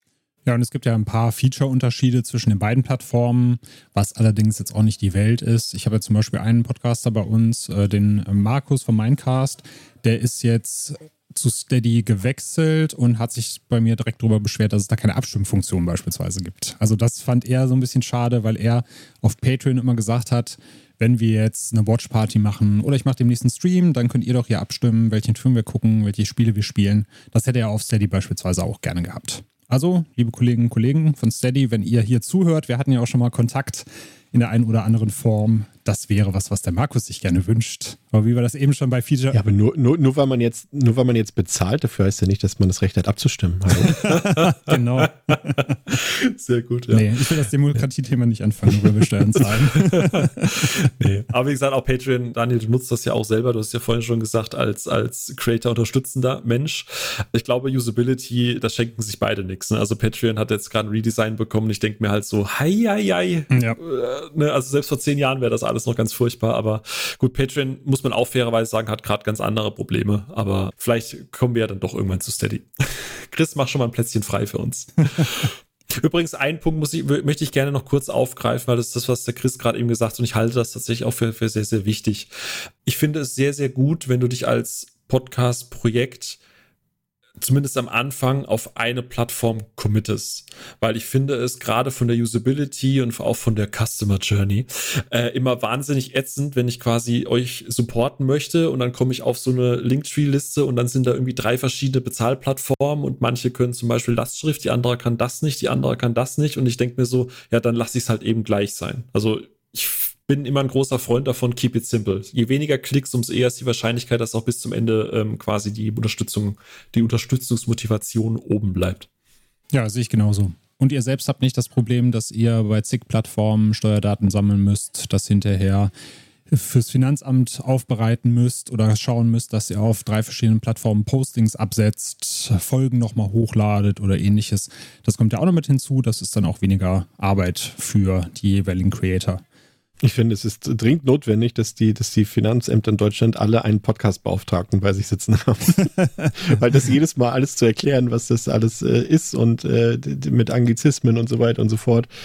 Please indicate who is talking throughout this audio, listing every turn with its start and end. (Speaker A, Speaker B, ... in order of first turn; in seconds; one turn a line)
Speaker A: 0.5-39.4
Speaker B: 39.3-44.0
Speaker A: 43.8-45.8
Speaker C: 43.9-47.5
Speaker A: 46.9-50.9
Speaker C: 49.0-86.4
Speaker A: 63.5-63.8
Speaker C: 87.4-119.1
Speaker A: 119.7-125.9
Speaker A: 126.5-139.4
Speaker B: 140.0-152.1